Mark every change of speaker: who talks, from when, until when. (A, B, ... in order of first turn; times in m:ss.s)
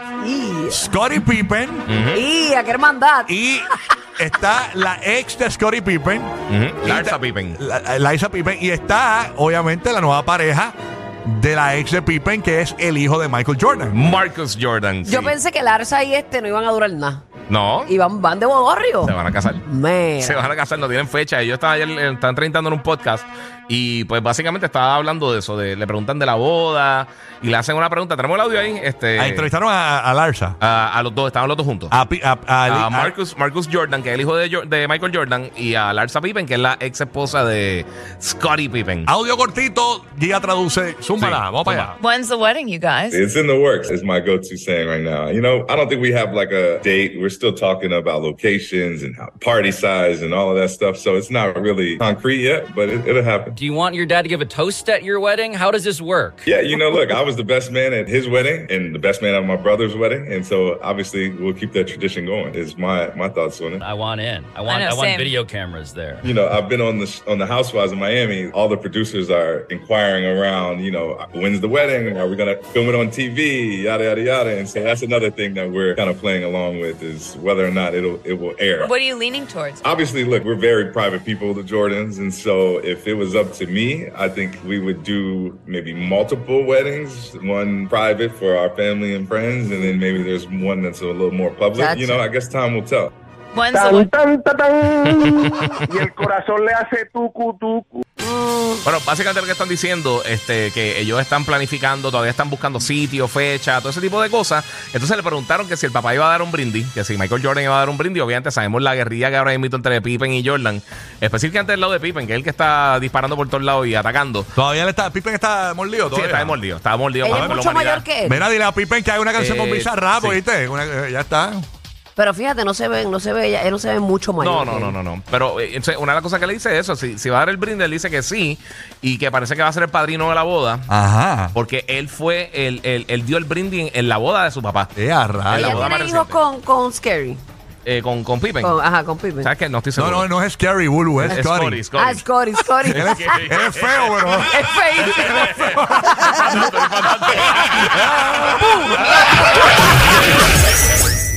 0:00.2-0:01.0 A
0:00.7-0:01.9 B
0:01.9-0:02.3 C
0:02.1-0:03.9 A
0:03.3-0:06.3 B
0:06.5-0:07.6 C
0:06.8-0:14.0 B
0:13.9-0:15.4 C
0:15.0-0:17.2 A
0:17.5-0:18.0 C
0:17.9-0:20.5 A
0:19.0-0:19.7 C
0:20.2-0:29.5 C
0:29.2-0:30.6 B
0:30.6-0:32.0 C
0:31.9-0:33.2 B
0:32.7-0:39.1 C
0:39.1-0:42.0 B
0:41.2-0:41.9 C
0:42.0-0:43.2 D
0:43.1-0:53.6 E
0:53.6-0:56.4 F
0:56.4-1:03.8 E
1:03.8-1:06.3 F
1:04.7-1:05.4 D
1:06.2-1:18.9 E
1:18.8-1:19.8 D
1:19.8-1:33.1 E
1:31.7-1:32.2 A
1:33.6-1:34.1 D
1:33.7-1:38.0 G
1:38.2-1:38.8 A
1:38.8-1:54.5 C
1:54.6-1:56.6 B
1:56.1-1:58.0 C
1:57.2-1:58.4 A
1:57.3-1:57.6 B
1:58.2-2:01.7 B
1:59.4-2:00.4 C
2:02.2-2:05.0 A
2:04.4-2:10.9 C
2:10.9-2:11.6 B
2:11.5-2:14.9 C
2:15.0-2:15.8 B
2:15.5-2:16.4 C
2:15.5-2:17.4 A
2:17.8-2:18.8 C
2:18.6-2:19.5 A
2:19.4-2:20.3 C
2:20.0-2:21.8 B
2:21.2-2:28.7 C
2:22.0-2:23.4 A
2:22.9-2:24.5 B
2:24.4-2:25.4 A
2:25.2-2:26.7 B
2:26.0-2:26.6 A
2:27.2-2:28.8 B